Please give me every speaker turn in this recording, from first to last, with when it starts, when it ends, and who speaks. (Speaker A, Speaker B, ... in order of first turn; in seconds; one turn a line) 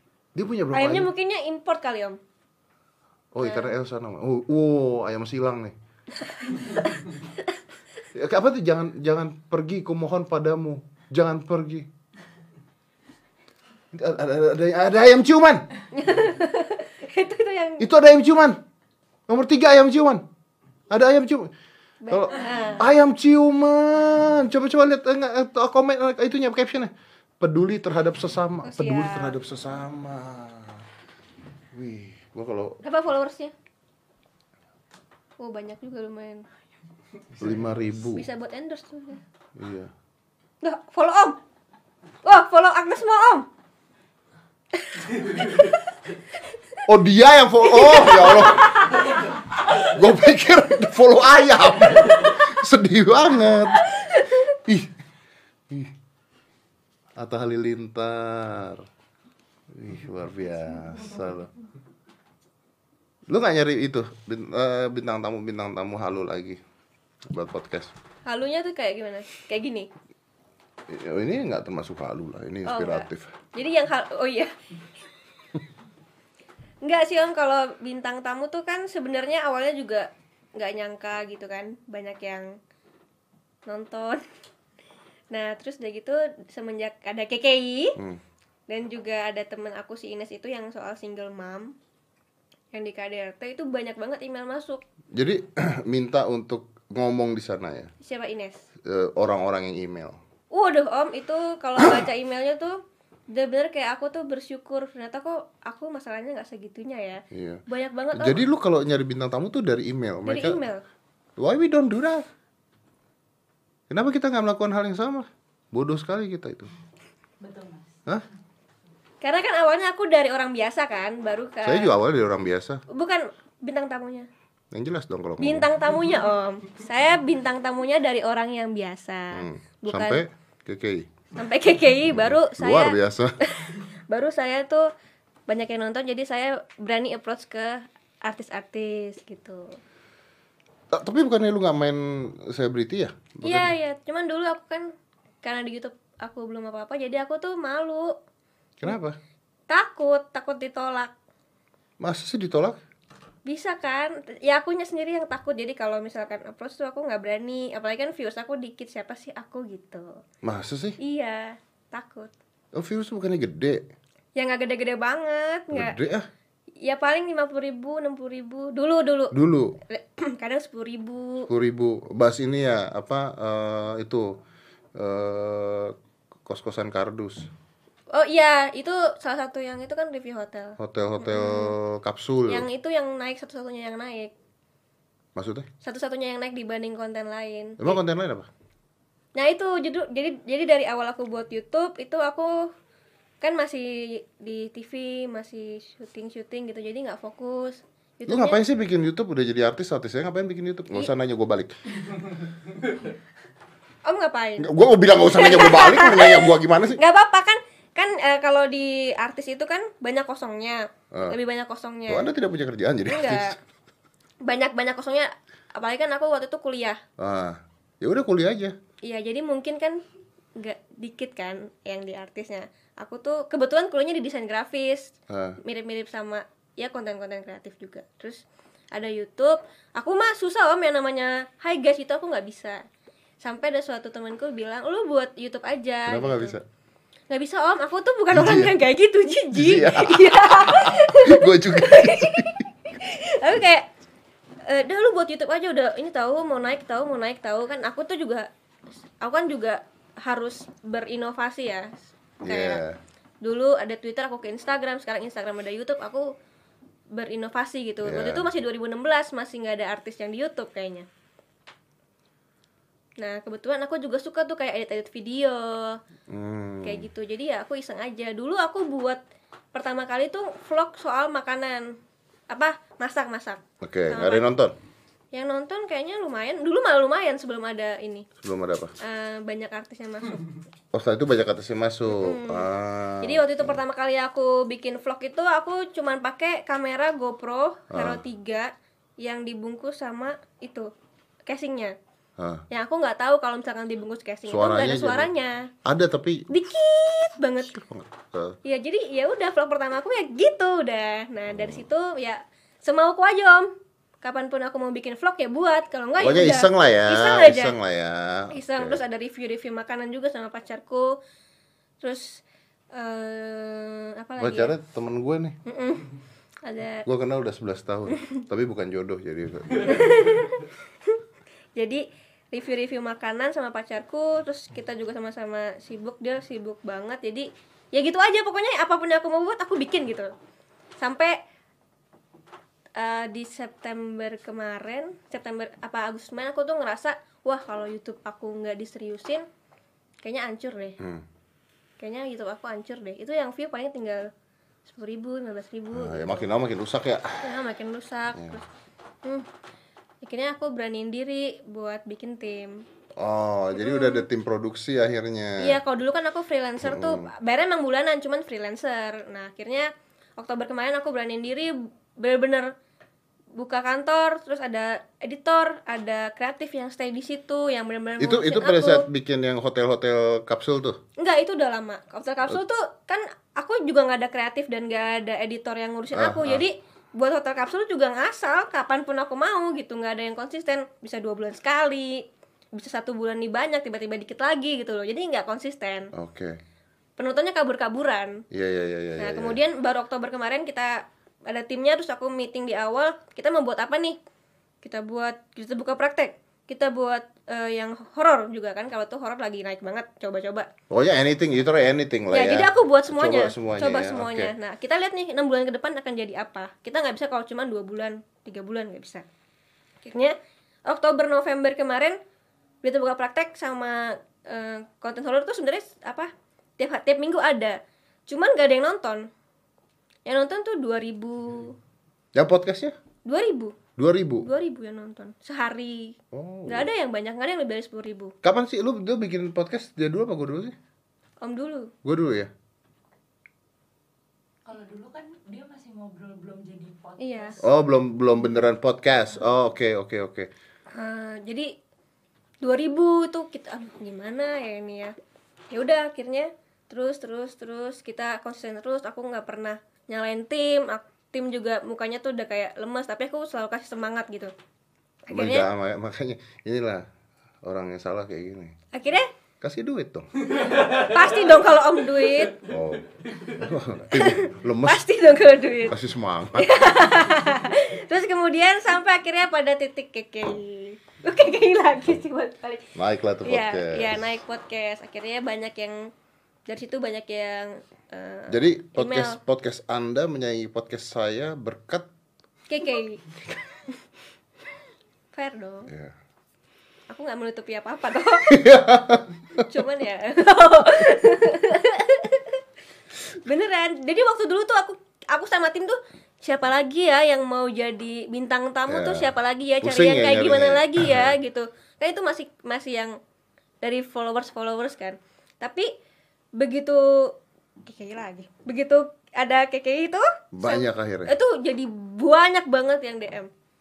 Speaker A: 0.3-1.1
Speaker B: 0.7-2.2
Speaker A: 3.3-5.8
Speaker B: 3.4-3.7
Speaker A: 8.2-11.9
Speaker A: 13.9-15.7
Speaker B: 15.9-17.9
Speaker A: 17.8-18.6
Speaker A: 19.3-20.2
Speaker A: 20.9-21.5
Speaker B: 22.0-22.8
Speaker A: 22.1-30.8
Speaker B: 28.6-29.4
Speaker A: 31.7-32.8
Speaker B: 32.8-33.5
Speaker B: 35.4-36.5
Speaker A: 37.4-38.3
Speaker B: 38.1-39.2
Speaker A: 39.6-39.9
Speaker B: 40.6-41.4
Speaker B: 42.2-43.5
Speaker B: 44.7-45.8
Speaker A: 46.9-48.7
Speaker B: 47.6-49.2
Speaker A: 49.8-53.9
Speaker B: 53.9-54.4
Speaker A: 54.5-54.9
Speaker A: 57.2-58.9
Speaker A: 59.8-61.5
Speaker A: 63.3-66.6
Speaker A: 67.3-67.9
Speaker B: 68.3-69.9
Speaker A: 70.9-73.3
Speaker B: 72.7-74.5
Speaker B: 76.8-82.5
Speaker B: 83.7-84.2
Speaker B: 85.3-88.0
Speaker B: 88.7-91.7
Speaker B: 92.7-94.8
Speaker A: 95.1-97.9
Speaker B: 98.0-98.6
Speaker A: 98.8-100.2
Speaker B: 100.5-102.8
Speaker B: 103.3-108.4
Speaker A: 107.3-107.6
Speaker A: 108.1-110.6
Speaker B: 110.2-110.8
Speaker A: 111.4-112.3
Speaker A: 113.9-116.7
Speaker C: 117.4-117.9
Speaker B: 119.2-121.9
Speaker A: 121.6-122.8
Speaker B: 122.9-124.3
Speaker A: 124.7-125.7
Speaker B: 125.4-130.2
Speaker A: 129.3-131.1
Speaker B: 131.4-134.9
Speaker A: 132.1-133.4
Speaker B: 135.5-139.8
Speaker A: 140.9-143.7
Speaker B: 143.4-148.1
Speaker A: 148.8-149.2
Speaker B: 149.7-151.1
Speaker A: 152.0-152.8
Speaker B: 153.5-160.2
Speaker A: 160.4-161.0
Speaker B: 161.0-162.3
Speaker A: 162.8-163.8
Speaker B: 164.4-166.0
Speaker A: 165.7-166.3
Speaker B: 166.8-169.3
Speaker A: 169.3-169.8
Speaker B: 169.9-171.5
Speaker A: 171.5-174.3
Speaker A: 175.0-175.9
Speaker A: 176.5-177.5
Speaker B: 178.1-181.8
Speaker A: 180.8-182.7
Speaker B: 182.5-184.3
Speaker A: 185.4-185.7
Speaker B: 185.8-188.0
Speaker A: 187.8-188.5
Speaker B: 189.4-192.7
Speaker B: 193.4-198.6
Speaker A: 198.3-201.7
Speaker B: 204.1-212.3
Speaker A: 204.6-207.0
Speaker A: 212.1-213.5
Speaker B: 213.1-213.6
Speaker B: 214.4-217.0
Speaker A: 217.2-218.8
Speaker B: 219.0-220.0
Speaker B: 220.6-232.8
Speaker A: 225.3-225.6
Speaker B: 233.4-236.6
Speaker A: 236.1-236.6
Speaker B: 237.3-243.9
Speaker A: 238.3-238.7
Speaker A: 239.5-242.6
Speaker B: 244.6-248.5
Speaker B: 249.2-251.9
Speaker A: 252.4-253.0
Speaker B: 252.5-252.8
Speaker B: 253.4-256.3
Speaker B: 257.1-261.1
Speaker A: 258.1-258.5
Speaker B: 263.2-266.0
Speaker A: 266.3-267.1
Speaker B: 266.8-269.2
Speaker B: 269.7-271.9
Speaker B: 272.5-274.5
Speaker A: 273.8-274.7
Speaker B: 275.3-278.3
Speaker A: 278.4-278.9
Speaker B: 279.0-280.5
Speaker A: 280.9-283.8
Speaker B: 282.1-282.7
Speaker B: 283.2-290.9
Speaker A: 287.9-288.2
Speaker B: 291.5-292.0
Speaker B: 292.7-295.7
Speaker A: 294.5-295.3
Speaker A: 295.9-296.4
Speaker B: 296.5-297.8
Speaker A: 297.7-298.6
Speaker B: 298.6-303.7
Speaker B: 304.2-307.8
Speaker A: 306.2-309.0
Speaker B: 308.5-311.1
Speaker B: 312.0-314.7
Speaker A: 314.4-315.6
Speaker B: 315.7-317.1
Speaker A: 317.1-320.3
Speaker B: 319.8-321.2
Speaker B: 321.8-330.3
Speaker B: 331.0-331.4
Speaker B: 333.0-339.4
Speaker B: 340.2-341.0
Speaker A: 341.0-341.2
Speaker B: 342.0-344.3
Speaker B: 344.9-346.5
Speaker A: 345.9-347.5
Speaker B: 347.4-348.6
Speaker B: 350.2-352.9
Speaker A: 353.2-355.8
Speaker B: 353.8-354.3
Speaker B: 355.6-362.7
Speaker A: 356.8-357.3
Speaker B: 363.6-369.1
Speaker A: 368.2-371.0
Speaker B: 371.2-386.1
Speaker A: 376.1-376.6
Speaker A: 386.1-386.6
Speaker B: 387.2-388.4
Speaker A: 388.5-389.6
Speaker B: 389.2-394.2
Speaker B: 394.8-400.7
Speaker A: 400.9-404.5
Speaker B: 402.3-409.3
Speaker B: 410.0-410.4
Speaker B: 410.9-412.2
Speaker B: 412.8-419.3
Speaker B: 420.3-421.8
Speaker A: 422.4-422.9
Speaker B: 423.3-423.8
Speaker A: 424.0-424.5
Speaker B: 424.4-426.2
Speaker A: 426.3-426.9
Speaker B: 426.7-428.3
Speaker A: 428.4-430.8
Speaker B: 431.4-431.9
Speaker A: 432.0-432.5
Speaker C: 434.7-437.6
Speaker B: 437.2-437.6
Speaker A: 437.6-440.5
Speaker B: 440.9-441.7
Speaker B: 442.6-445.1
Speaker B: 445.7-454.5
Speaker B: 455.3-455.7
Speaker A: 455.3-457.1
Speaker A: 457.6-458.8
Speaker B: 458.9-459.3
Speaker A: 459.6-460.3
Speaker B: 460.7-462.6
Speaker A: 462.6-465.1
Speaker B: 464.1-466.0
Speaker A: 465.9-466.8
Speaker B: 466.5-472.9
Speaker A: 472.9-474.3
Speaker B: 473.4-476.1
Speaker B: 476.7-479.4
Speaker A: 478.5-482.1
Speaker B: 482.7-484.0
Speaker B: 485.3-485.9
Speaker A: 485.9-486.1
Speaker B: 487.1-488.6
Speaker A: 488.5-489.7
Speaker B: 489.6-492.6
Speaker B: 493.4-503.2
Speaker A: 498.9-501.4
Speaker B: 503.8-505.9
Speaker B: 506.6-507.3
Speaker B: 507.8-513.5
Speaker A: 510.5-511.3